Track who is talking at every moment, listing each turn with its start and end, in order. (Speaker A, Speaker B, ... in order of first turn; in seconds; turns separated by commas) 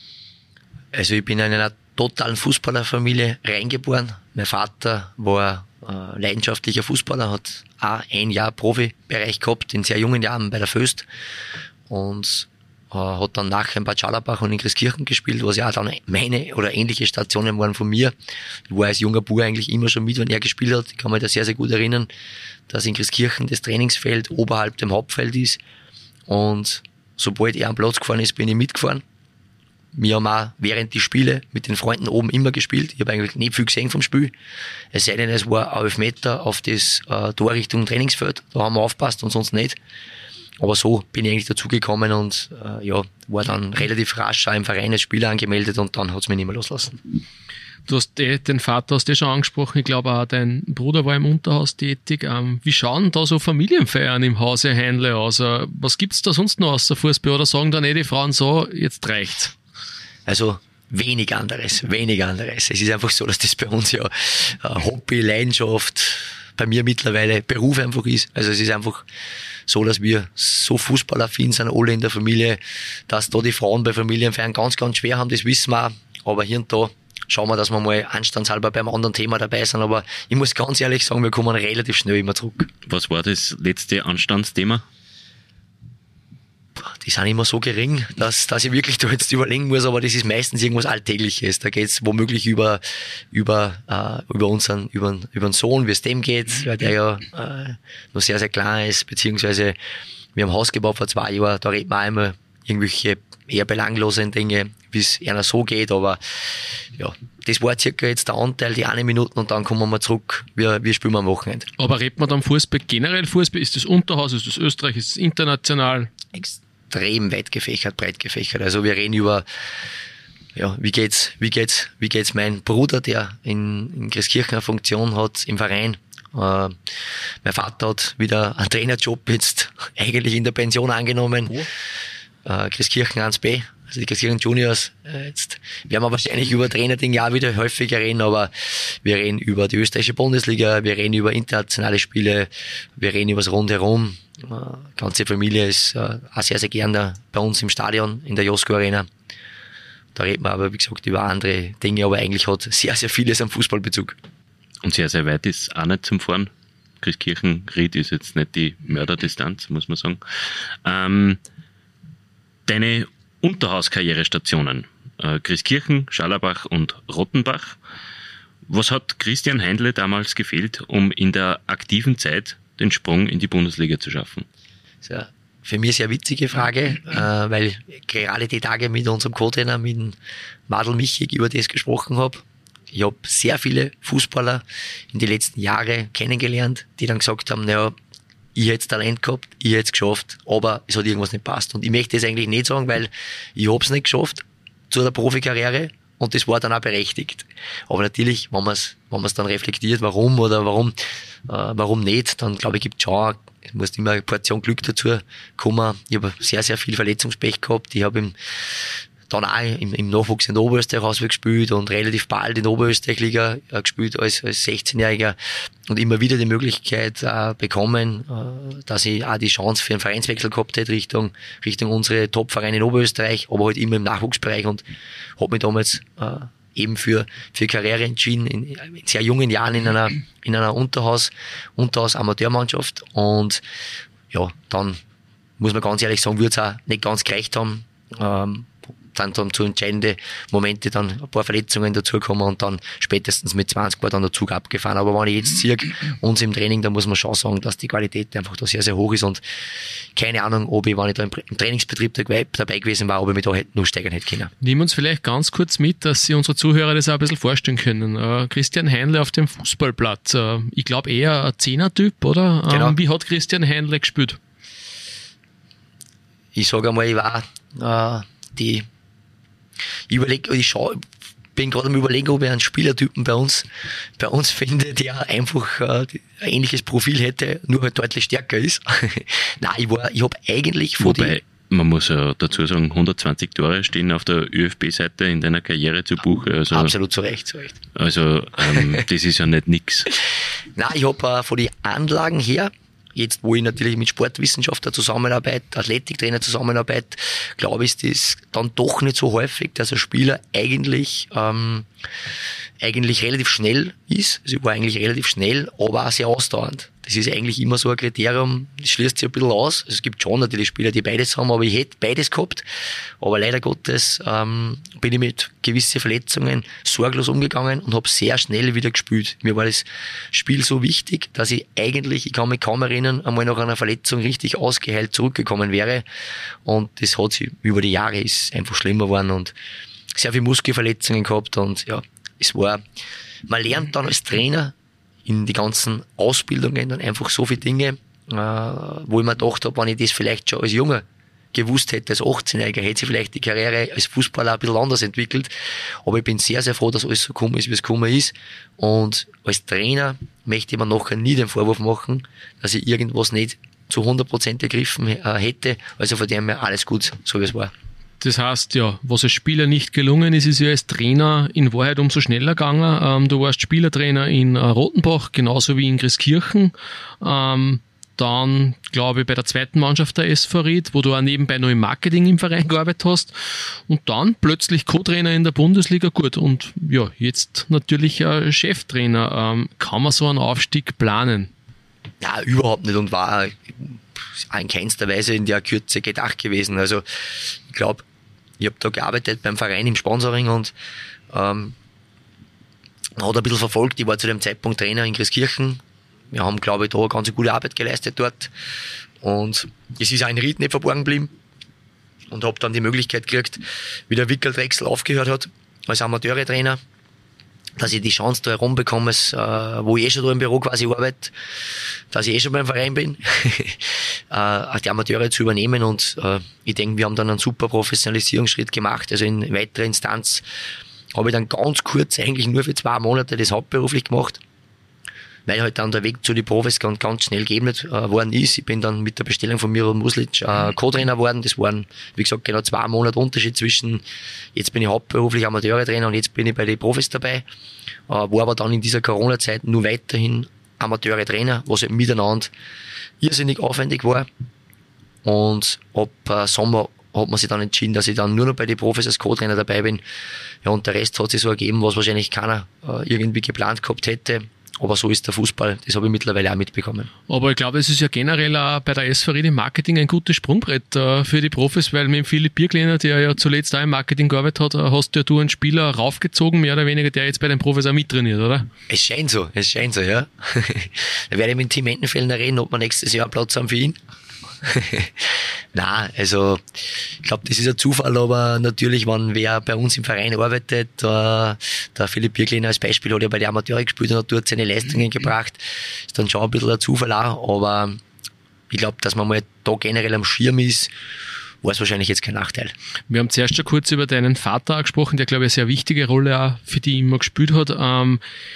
Speaker A: 0.9-11.1, Speaker A: 11.9-18.1, Speaker A: 18.7-22.1, Speaker A: 22.7-25.6, Speaker A: 26.3-29.0, Speaker A: 29.9-34.3, Speaker A: 34.9-39.8, Speaker A: 40.6-47.0, Speaker B: 47.9-59.5, Speaker A: 60.2-69.1, Speaker A: 69.7-82.7, Speaker C: 82.9-84.8, Speaker A: 86.8-99.8, Speaker A: 100.3-111.7, Speaker B: 111.8-116.1, Speaker A: 116.3-119.4, Speaker A: 120.5-131.7, Speaker A: 132.4-149.1, Speaker A: 150.1-154.2, Speaker C: 154.8-161.4, Speaker C: 162.7-167.8, Speaker C: 168.7-174.4, Speaker A: 175.0-180.2, Speaker A: 180.7-187.9, Speaker A: 188.5-200.9, Speaker A: 201.5-224.8, Speaker A: 225.4-233.6, Speaker A: 234.3-235.0, Speaker A: 235.6-249.4, Speaker A: 250.1-254.5, Speaker B: 254.6-264.4, Speaker A: 262.7-262.9, Speaker A: 266.5-268.9, Speaker A: 270.1-281.4, Speaker C: 281.0-286.9, Speaker A: 286.7-287.8, Speaker C: 287.9-290.1, Speaker A: 288.8-289.0, Speaker A: 290.8-301.9, Speaker A: 302.8-312.6, Speaker A: 313.2-326.1, Speaker A: 326.6-329.5, Speaker A: 330.1-332.8, Speaker A: 333.4-334.7, Speaker A: 335.2-357.7, Speaker B: 358.2-381.5, Speaker A: 382.2-388.0, Speaker A: 388.6-390.7, Speaker A: 391.3-391.8, Speaker A: 393.1-395.8, Speaker A: 396.3-398.5, Speaker A: 399.2-401.3, Speaker A: 402.3-406.8, Speaker A: 407.8-411.3, Speaker A: 412.1-420.4, Speaker A: 421.1-424.4, Speaker A: 425.4-434.0, Speaker A: 434.5-437.4, Speaker A: 438.1-442.5, Speaker A: 443.2-444.3, Speaker A: 445.2-450.0, Speaker A: 450.6-457.1, Speaker B: 457.3-468.7, Speaker A: 468.9-474.0, Speaker A: 474.6-488.0, Speaker A: 488.7-490.9, Speaker A: 491.6-492.7, Speaker B: 493.1-498.2